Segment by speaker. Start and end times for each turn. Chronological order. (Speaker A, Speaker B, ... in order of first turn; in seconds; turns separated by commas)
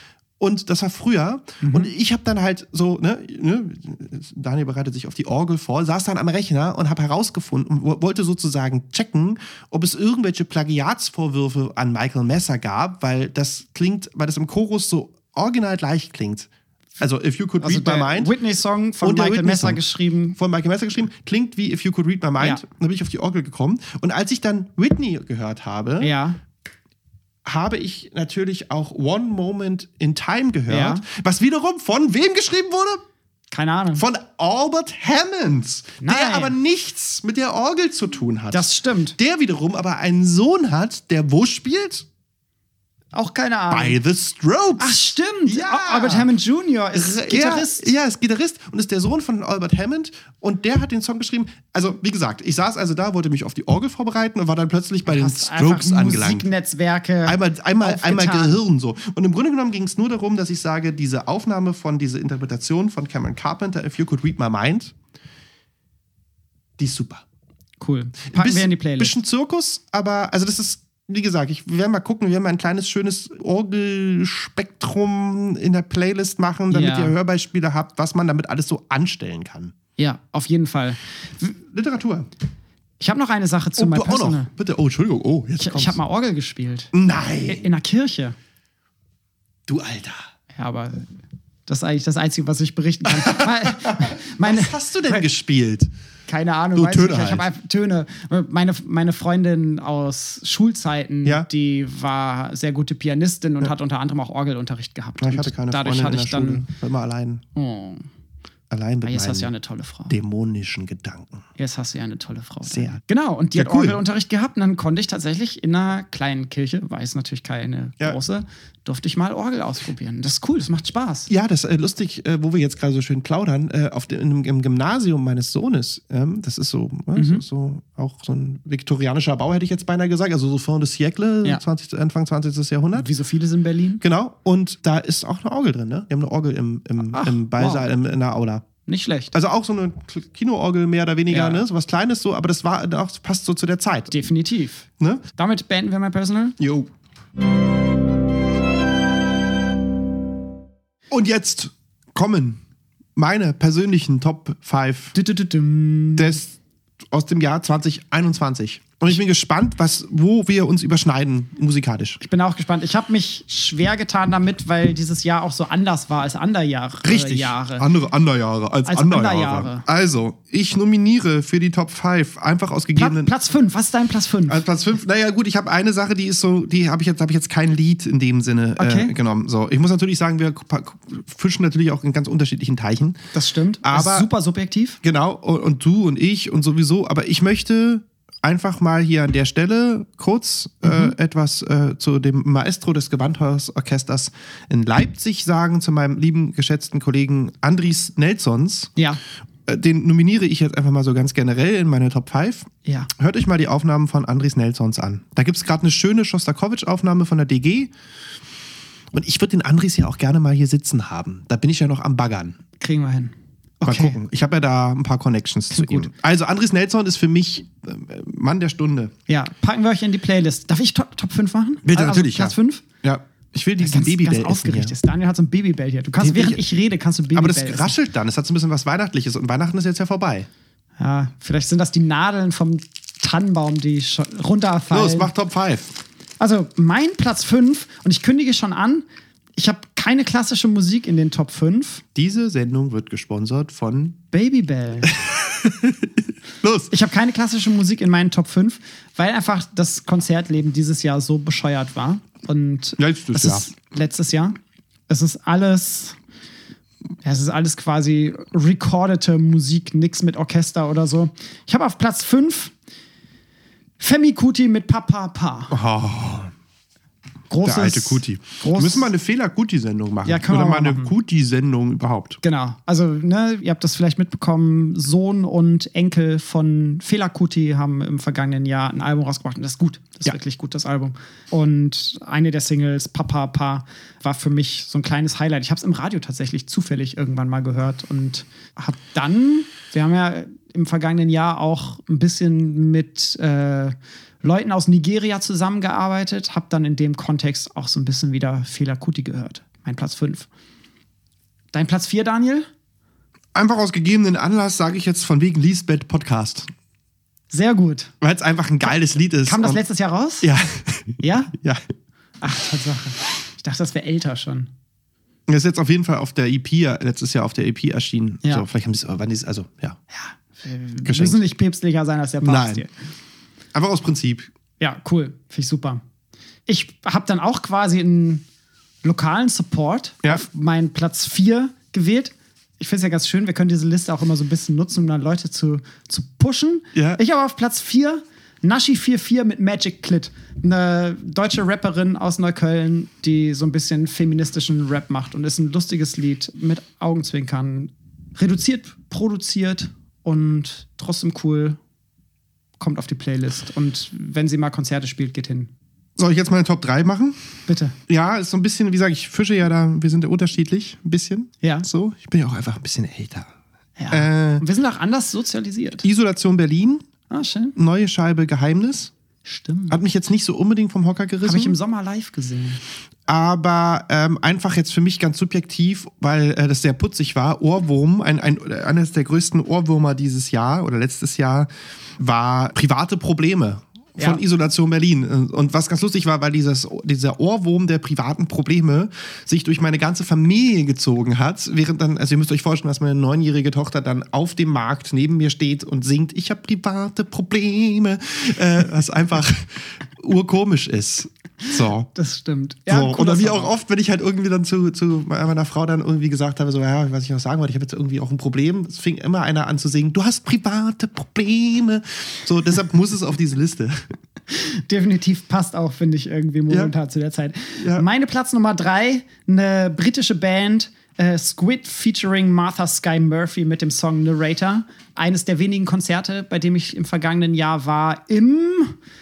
Speaker A: 0.4-18.3, Speaker B: 1.6-1.9, Speaker B: 17.6-20.4, Speaker A: 19.0-19.8, Speaker A: 20.4-26.1, Speaker B: 22.4-22.6, Speaker B: 26.0-26.4, Speaker A: 27.4-33.0, Speaker B: 30.7-31.0, Speaker B: 33.5-34.0, Speaker A: 33.9-42.0, Speaker B: 36.0-36.5, Speaker B: 38.5-39.2, Speaker B: 43.1-44.0, Speaker A: 43.7-46.3, Speaker B: 44.8-47.9, Speaker A: 46.9-56.5, Speaker B: 55.0-58.5, Speaker A: 57.2-64.9, Speaker A: 66.8-67.2, Speaker B: 67.8-69.2, Speaker A: 68.3-79.7, Speaker B: 76.7-77.2, Speaker B: 80.0-81.6, Speaker A: 81.7-82.3, Speaker B: 83.0-84.5, Speaker A: 83.8-86.0, Speaker B: 85.6-86.9, Speaker A: 86.9-87.7, Speaker B: 87.5-88.3, Speaker A: 89.7-90.2, Speaker B: 90.5-91.1, Speaker B: 91.7-95.3, Speaker A: 93.0-95.9, Speaker B: 96.3-106.6, Speaker A: 96.7-97.5, Speaker A: 105.2-107.4, Speaker B: 107.5-108.0, Speaker A: 108.7-109.5, Speaker B: 109.0-110.1, Speaker A: 110.1-111.4, Speaker B: 111.6-121.3, Speaker A: 112.7-113.0, Speaker A: 113.5-114.0, Speaker A: 121.3-133.1, Speaker B: 127.1-127.4, Speaker B: 132.9-134.0, Speaker A: 134.0-138.6, Speaker B: 137.0-137.9, Speaker B: 138.9-139.3, Speaker A: 139.3-144.1, Speaker B: 141.3-141.6, Speaker B: 144.1-146.6, Speaker A: 146.6-146.9, Speaker A: 151.1-152.6, Speaker A: 153.2-155.2, Speaker B: 155.1-156.4, Speaker A: 156.2-156.6, Speaker A: 157.1-162.2, Speaker B: 162.2-167.9, Speaker A: 167.0-173.3, Speaker B: 168.8-169.8, Speaker B: 172.9-174.6, Speaker A: 174.5-183.2, Speaker B: 178.8-179.1, Speaker B: 183.3-185.0, Speaker A: 183.8-184.3, Speaker A: 185.0-198.9, Speaker B: 190.8-191.1, Speaker B: 198.9-199.2, Speaker A: 199.7-207.9, Speaker B: 202.8-203.1, Speaker A: 209.1-212.6, Speaker B: 212.8-214.2, Speaker A: 213.8-219.1, Speaker B: 215.7-216.1, Speaker B: 219.3-222.8, Speaker A: 221.8-224.9, Speaker B: 223.8-228.0, Speaker A: 226.2-226.6, Speaker A: 227.3-230.5, Speaker B: 231.0-235.3, Speaker A: 234.9-235.9, Speaker B: 236.4-242.0, Speaker A: 242.1-244.2, Speaker B: 244.3-245.1, Speaker A: 245.0-246.9, Speaker B: 246.9-254.6, Speaker A: 253.0-253.7, Speaker B: 255.1-256.2, Speaker B: 257.2-262.7, Speaker B: 264.0-265.7, Speaker A: 265.7-266.5, Speaker B: 267.5-269.1, Speaker A: 267.6-272.4, Speaker B: 270.2-271.1, Speaker B: 272.4-300.5, Speaker B: 301.7-302.7, Speaker A: 303.5-306.7, Speaker B: 307.5-308.1, Speaker A: 308.2-309.8, Speaker B: 309.4-310.5, Speaker A: 310.4-311.8, Speaker B: 311.2-311.5, Speaker B: 312.4-314.7, Speaker A: 315.5-320.0, Speaker B: 320.1-322.9, Speaker A: 321.0-321.4, Speaker A: 322.4-322.8, Speaker A: 323.7-324.5, Speaker B: 324.8-326.0, Speaker B: 326.7-328.4, Speaker B: 329.0-351.8, Speaker A: 336.9-337.2, Speaker B: 352.8-355.7, Speaker A: 356.2-357.4, Speaker B: 357.7-358.0, Speaker A: 358.1-363.5, Speaker B: 361.6-361.9, Speaker B: 364.0-366.0, Speaker A: 364.1-364.6, Speaker A: 366.0-367.0, Speaker B: 367.3-367.8, Speaker A: 367.8-369.1, Speaker B: 369.4-370.0, Speaker A: 369.9-371.8, Speaker B: 371.4-372.8, Speaker A: 373.3-402.1, Speaker B: 384.2-384.4, Speaker B: 402.1-403.7, Speaker A: 402.9-414.0, Speaker B: 414.5-429.0, Speaker A: 417.8-418.1